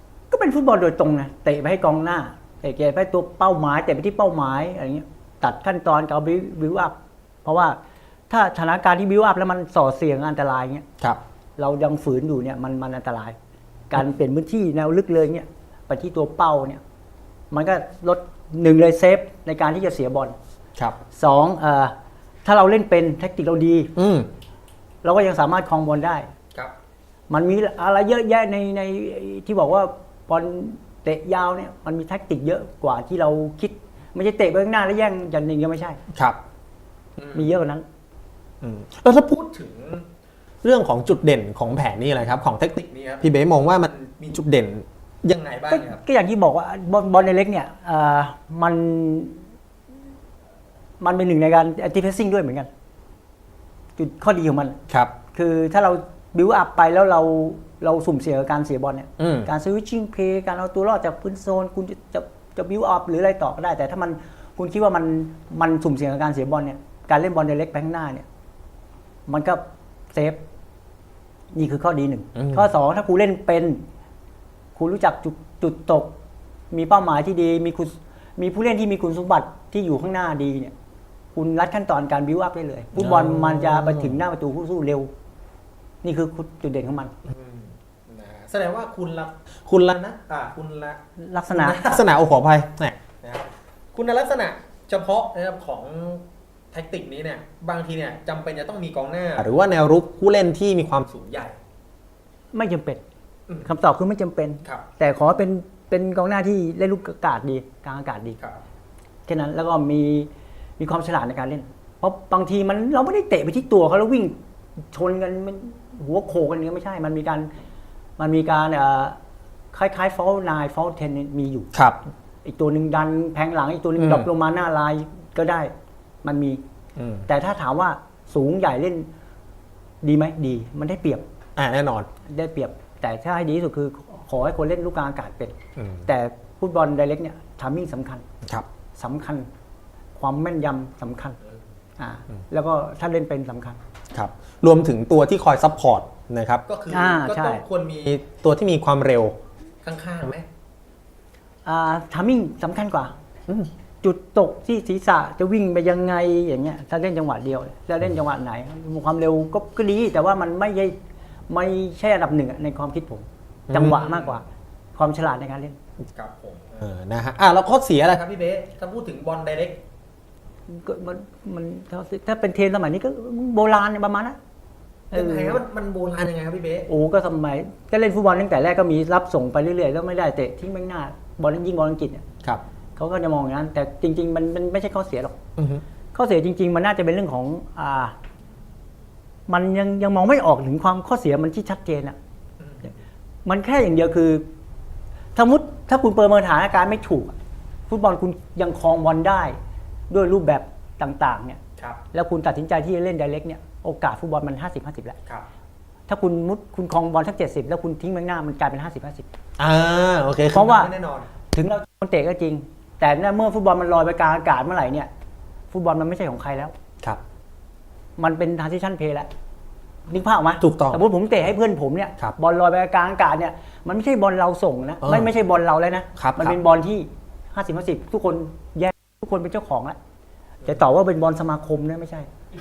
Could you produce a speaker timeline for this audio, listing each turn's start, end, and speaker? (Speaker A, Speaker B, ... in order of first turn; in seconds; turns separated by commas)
Speaker A: 0.3-6.9, Speaker A: 7.4-7.8, Speaker A: 8.3-10.9, Speaker A: 11.6-13.4, Speaker A: 13.9-16.8, Speaker A: 17.5-20.4, Speaker A: 21.1-21.9, Speaker A: 22.4-23.9, Speaker B: 24.0-24.3, Speaker A: 25.0-26.3, Speaker A: 27.3-36.0, Speaker A: 37.2-37.8, Speaker B: 38.6-40.0, Speaker B: 40.6-46.0, Speaker A: 45.7-49.4, Speaker A: 51.0-52.7, Speaker A: 54.0-54.8, Speaker A: 55.3-68.2, Speaker B: 59.2-59.5, Speaker A: 69.3-70.4, Speaker A: 71.5-73.8, Speaker B: 72.4-72.6, Speaker A: 74.8-76.1, Speaker A: 76.7-80.7, Speaker A: 81.3-85.1, Speaker B: 83.0-84.1, Speaker A: 86.0-87.1, Speaker B: 87.2-91.0, Speaker A: 91.2-91.9, Speaker B: 91.5-101.6, Speaker A: 102.5-103.0, Speaker A: 103.6-108.4, Speaker A: 109.3-114.4, Speaker A: 114.9-117.5, Speaker A: 118.2-119.2, Speaker A: 119.7-121.7, Speaker A: 122.4-125.7, Speaker B: 124.0-124.3, Speaker A: 126.2-126.6, Speaker B: 127.0-127.3, Speaker A: 127.3-129.1, Speaker A: 130.0-131.2, Speaker B: 131.6-132.1, Speaker A: 132.3-138.2, Speaker B: 135.8-136.1, Speaker A: 139.0-139.5, Speaker A: 140.2-141.4, Speaker A: 142.0-143.8, Speaker B: 144.1-150.5, Speaker A: 146.9-147.6, Speaker A: 151.7-153.2, Speaker A: 154.0-161.0, Speaker A: 161.5-164.4, Speaker B: 163.7-164.4, Speaker A: 165.0-165.8, Speaker B: 166.2-169.8, Speaker A: 170.7-174.4, Speaker B: 175.1-176.9, Speaker A: 175.1-175.6, Speaker A: 176.9-182.2, Speaker A: 183.0-185.4, Speaker B: 185.6-185.8, Speaker A: 186.1-188.2, Speaker A: 189.5-192.2, Speaker B: 192.6-192.9, Speaker A: 193.4-194.4, Speaker A: 195.3-197.4, Speaker A: 197.9-199.6, Speaker A: 200.1-201.6, Speaker A: 202.1-205.2, Speaker A: 206.1-209.3, Speaker B: 209.6-211.3, Speaker A: 210.5-210.9, Speaker A: 211.5-215.1, Speaker A: 215.7-216.7, Speaker A: 218.2-219.3, Speaker A: 220.1-230.0, Speaker B: 220.6-221.0, Speaker B: 225.0-225.3, Speaker B: 226.2-226.6, Speaker A: 230.6-232.3